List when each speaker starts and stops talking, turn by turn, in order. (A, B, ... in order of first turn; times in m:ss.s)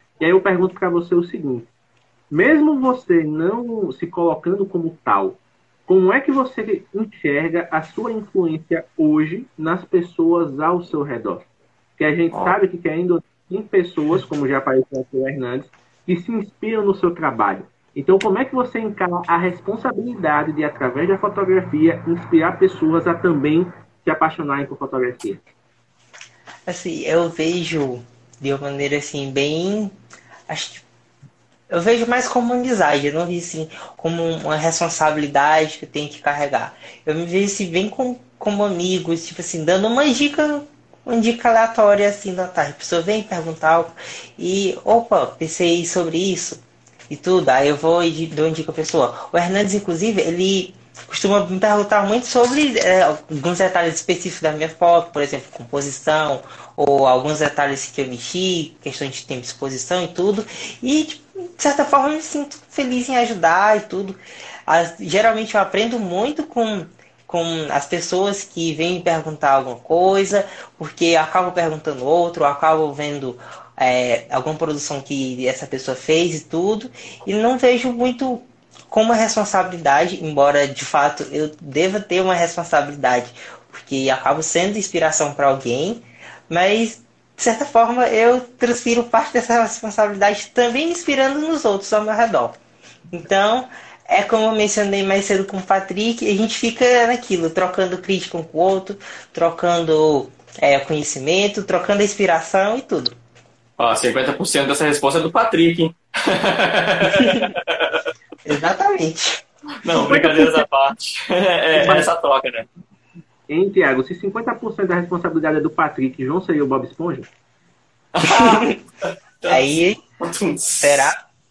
0:00.2-0:01.7 A
0:02.3-0:11.4 A
0:12.0-0:25.4 A
0:26.7-0:29.9 B
0:30.5-0:30.8 B
0:31.7-1:32.6 B
1:33.1-1:43.1 B
1:43.8-1:48.0 C
1:47.2-1:47.4 B
1:48.4-1:49.4 B
1:49.8-1:52.7 C
1:49.9-1:50.6 A
1:51.7-1:52.1 A
1:53.5-1:57.3 A
1:58.1-1:58.7 C
1:58.2-1:58.8 B
1:59.5-2:00.0 B
2:00.2-2:01.1 C
2:00.8-2:01.2 B